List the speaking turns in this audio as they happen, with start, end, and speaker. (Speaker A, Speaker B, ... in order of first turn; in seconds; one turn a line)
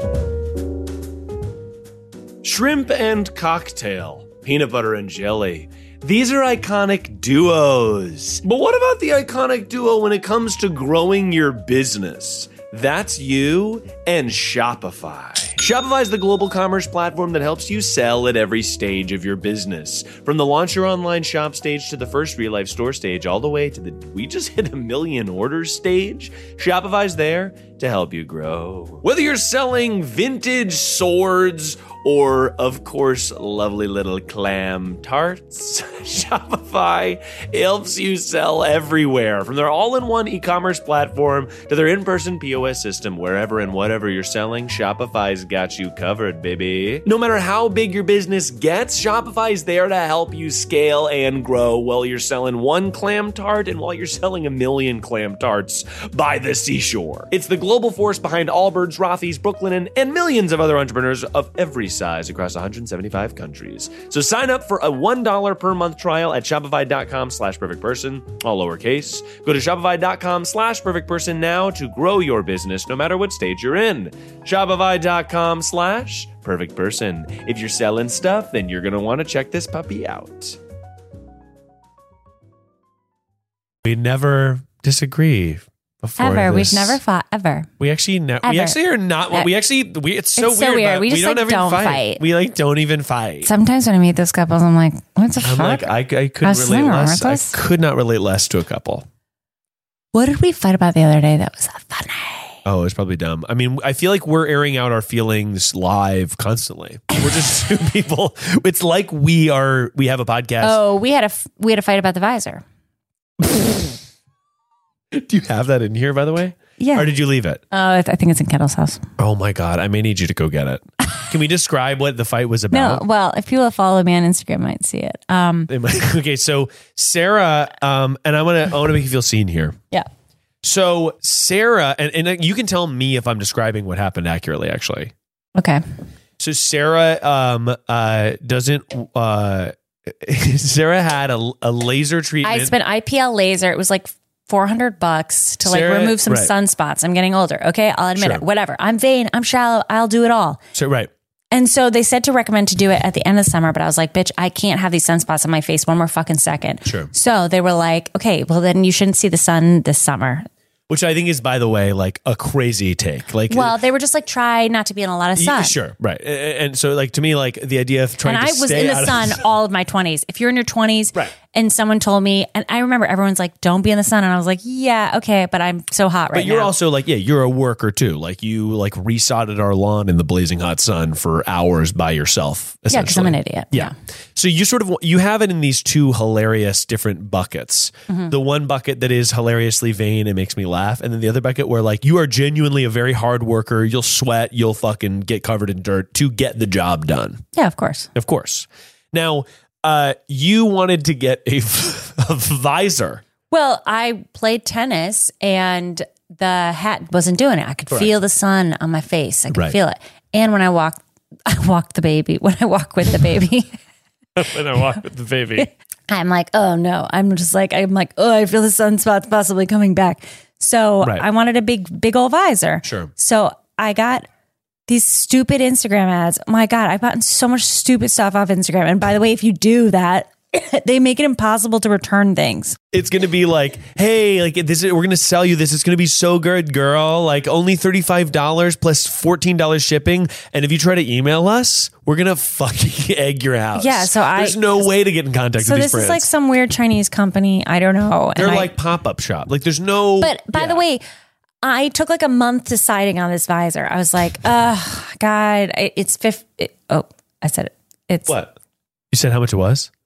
Speaker A: 2.4-80.6
Speaker A: 83.8-87.0
Speaker B: 86.2-87.7
Speaker A: 87.8-93.5
Speaker B: 88.4-88.8
Speaker B: 90.3-92.2
Speaker B: 93.4-95.9
Speaker A: 95.4-99.0
Speaker B: 96.4-97.6
Speaker B: 100.1-102.6
Speaker A: 102.6-110.8
Speaker B: 110.6-112.6
Speaker A: 115.1-117.6
Speaker B: 116.8-117.1
Speaker B: 117.7-119.0
Speaker A: 119.2-123.0
Speaker B: 122.7-125.7
Speaker A: 125.7-129.8
Speaker A: 130.6-135.1
Speaker B: 135.6-135.8
Speaker A: 136.4-142.7
Speaker B: 142.4-150.6
Speaker A: 145.6-146.5
Speaker A: 148.2-148.4
Speaker A: 150.7-151.1
Speaker B: 151.5-160.5
Speaker A: 156.8-157.1
Speaker A: 160.9-163.8
Speaker B: 163.5-165.7
Speaker A: 165.3-169.4
Speaker B: 168.2-176.7
Speaker A: 176.3-197.4
Speaker B: 182.9-183.9
Speaker B: 197.5-198.1
Speaker A: 198.1-203.2
Speaker B: 203.5-213.7
Speaker A: 209.5-209.8
Speaker A: 214.3-215.7
Speaker B: 215.6-224.2
Speaker A: 222.8-223.1
Speaker B: 224.9-232.8
Speaker A: 232.9-246.3
Speaker B: 243.7-244.9
Speaker B: 245.6-248.7
Speaker A: 248.3-250.8
Speaker B: 250.2-251.0
Speaker B: 251.6-258.4
Speaker A: 258.3-258.5
Speaker A: 259.1-259.9